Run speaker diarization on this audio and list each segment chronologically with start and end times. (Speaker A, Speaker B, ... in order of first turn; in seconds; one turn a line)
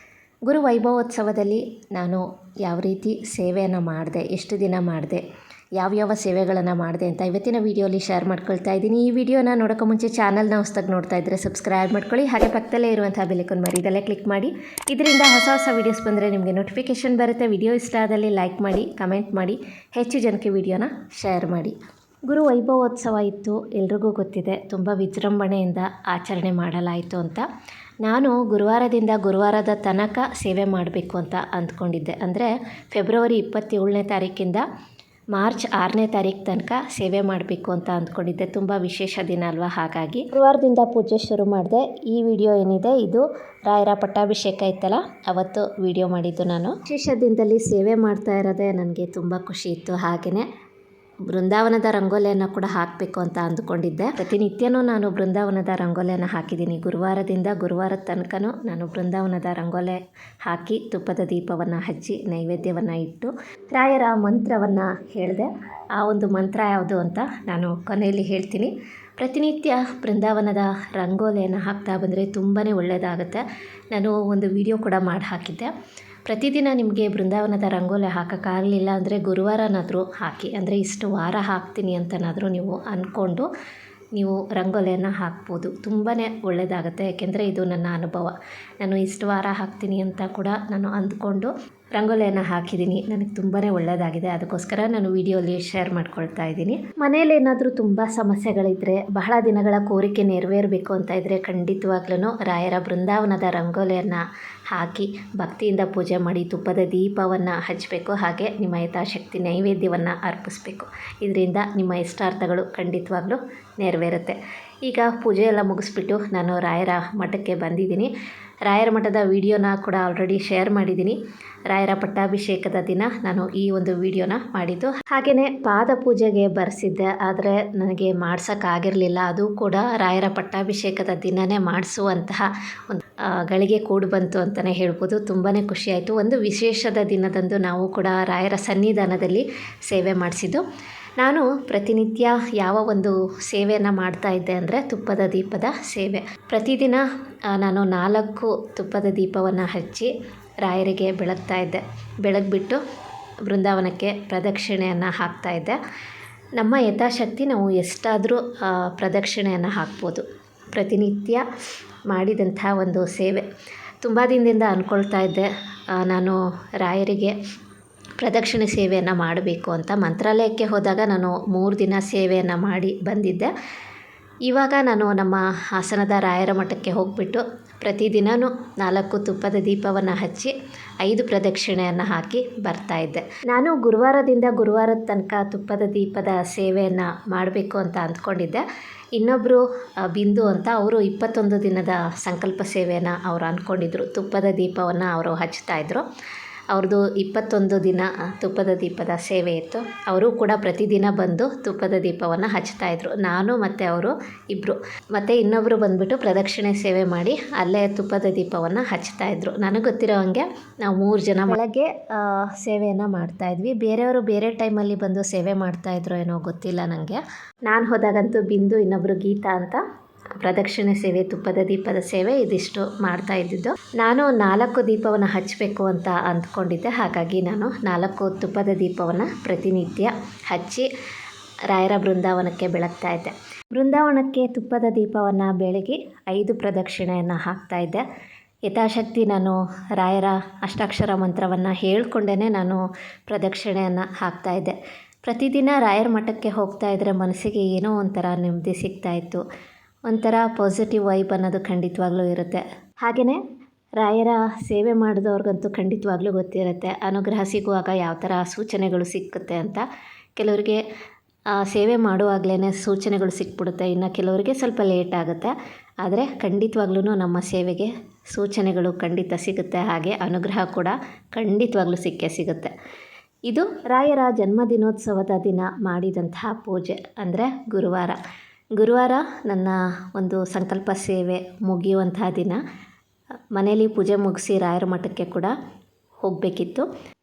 Speaker A: 0.5-5.2
Speaker A: 5.8-21.8
Speaker A: 22.3-27.5
Speaker A: 28.0-34.6
Speaker A: 35.3-50.5
Speaker A: 51.3-75.7
Speaker A: 76.3-83.5
Speaker A: 84.2-118.1
Speaker A: 118.7-121.2
Speaker A: 121.7-140.6
Speaker A: 141.2-150.1
Speaker A: 150.6-152.8
Speaker A: 153.5-155.8
Speaker A: 156.6-161.4
Speaker A: 162.1-163.4
Speaker A: 164.0-167.4
Speaker A: 168.2-173.5
Speaker A: 174.5-188.6
Speaker A: 189.2-196.0
Speaker A: 196.7-219.8
Speaker A: 220.4-230.9
Speaker A: 231.7-238.0
Speaker A: 238.7-249.4
Speaker A: 250.1-253.4
Speaker A: 254.0-259.8
Speaker A: 260.4-260.8
Speaker A: 261.5-272.7
Speaker A: 273.5-278.2
Speaker A: 278.8-282.6
Speaker A: 283.6-285.5
Speaker A: 286.2-286.9